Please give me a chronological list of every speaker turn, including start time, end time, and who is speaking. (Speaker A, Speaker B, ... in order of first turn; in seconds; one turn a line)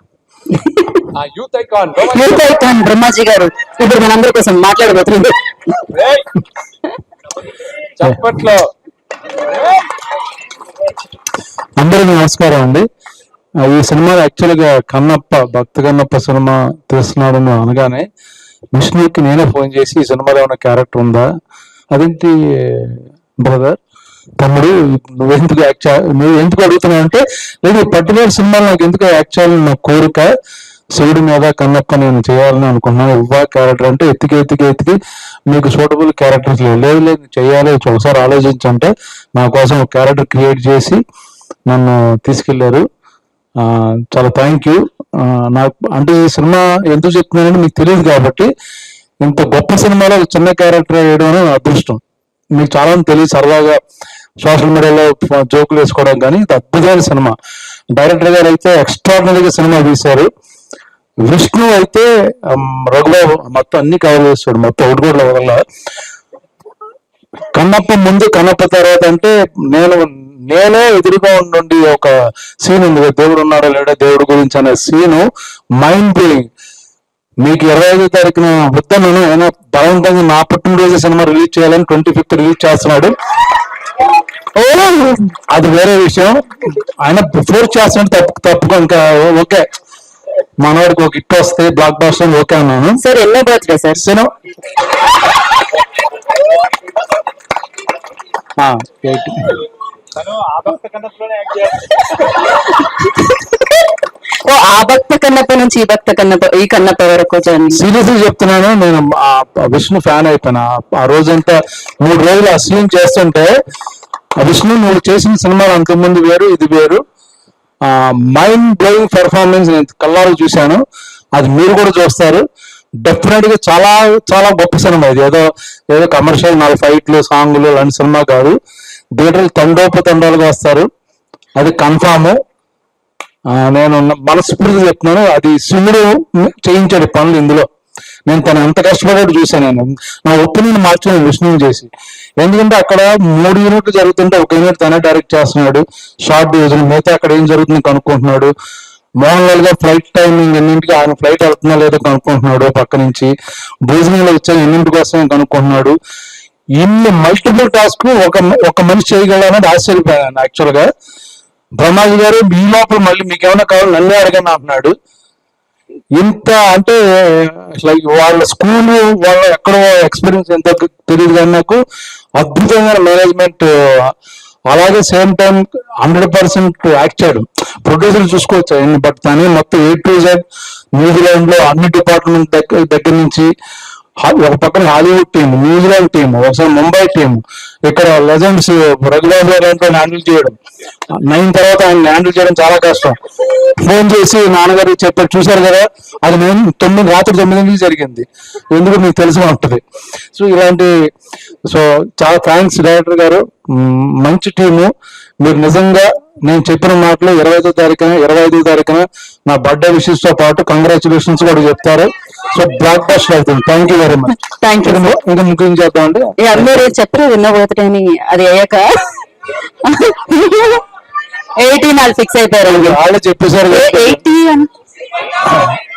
Speaker A: 0.5-1.1
Speaker B: 1.1-2.4
Speaker A: 2.0-5.7
Speaker B: 5.9-6.2
Speaker B: 8.0-8.7
Speaker C: 11.8-12.9
Speaker C: 13.6-18.1
Speaker C: 18.7-21.3
Speaker C: 21.9-23.8
Speaker C: 24.4-30.3
Speaker C: 30.9-35.0
Speaker C: 35.5-41.0
Speaker C: 41.7-42.9
Speaker C: 43.6-48.5
Speaker C: 49.2-52.0
Speaker C: 52.5-53.8
Speaker C: 54.4-57.3
Speaker C: 57.9-60.3
Speaker C: 61.2-65.6
Speaker C: 67.5-72.1
Speaker C: 72.6-75.3
Speaker C: 75.8-76.5
Speaker C: 77.4-83.1
Speaker A: 84.5-85.3
Speaker C: 85.5-89.6
Speaker C: 90.6-93.0
Speaker A: 93.0-94.0
Speaker C: 94.0-94.3
Speaker C: 98.6-99.6
Speaker A: 101.8-103.7
Speaker A: 104.4-107.8
Speaker C: 107.7-113.5
Speaker C: 114.4-117.0
Speaker C: 117.8-120.8
Speaker C: 121.3-122.4
Speaker C: 123.0-128.6
Speaker C: 129.2-130.9
Speaker C: 131.6-132.4
Speaker C: 133.6-137.7
Speaker C: 138.3-148.5
Speaker C: 149.2-153.3
Speaker C: 153.8-156.0
Speaker C: 156.8-160.9
Speaker C: 161.8-164.9
Speaker C: 166.2-171.8
Speaker C: 172.4-174.1
Speaker C: 174.7-180.4
Speaker C: 181.0-183.5
Speaker C: 184.2-190.6
Speaker C: 191.2-199.8
Speaker C: 200.3-200.9
Speaker C: 201.7-204.9
Speaker C: 205.4-216.7
Speaker A: 214.4-215.1
Speaker A: 216.4-218.9
Speaker A: 219.8-220.8
Speaker A: 221.6-223.0
Speaker C: 222.7-224.2
Speaker A: 223.7-224.7